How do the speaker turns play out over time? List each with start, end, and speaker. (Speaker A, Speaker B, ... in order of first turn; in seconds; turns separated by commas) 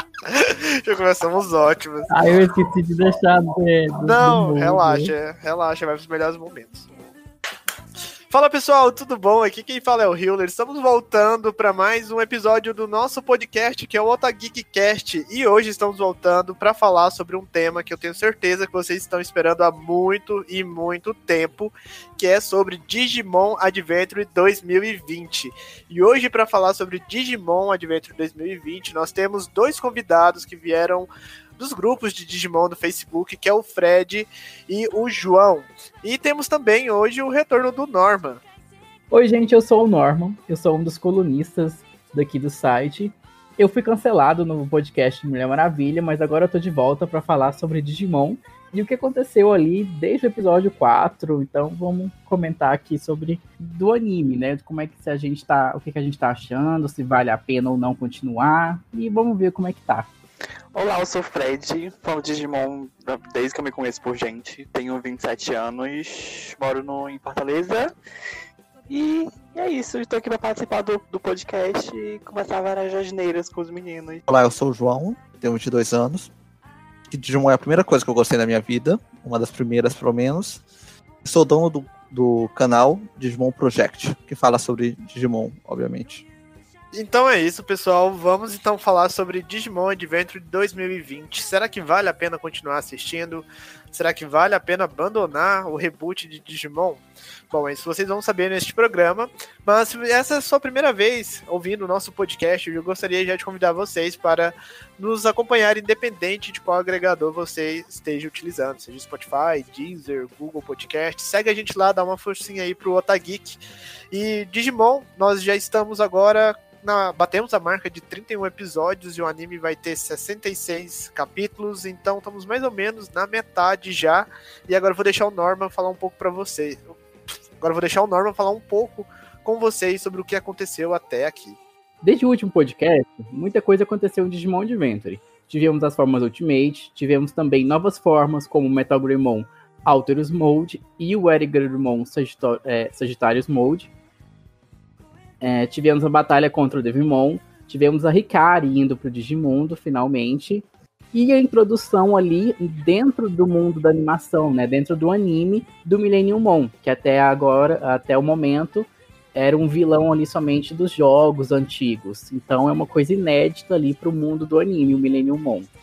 Speaker A: 0.3-2.3, Speaker B: 2.1-5.1, Speaker A: 4.0-6.9, Speaker A: 8.3-38.4, Speaker B: 39.1-60.1, Speaker C: 60.8-67.9, Speaker C: 68.9-74.2, Speaker D: 74.3-76.3, Speaker D: 77.1-80.6, Speaker D: 81.2-86.2, Speaker A: 86.9-113.6, Speaker A: 114.1-126.9, Speaker A: 127.6-131.6, Speaker B: 132.0-143.9, Speaker B: 145.4-165.7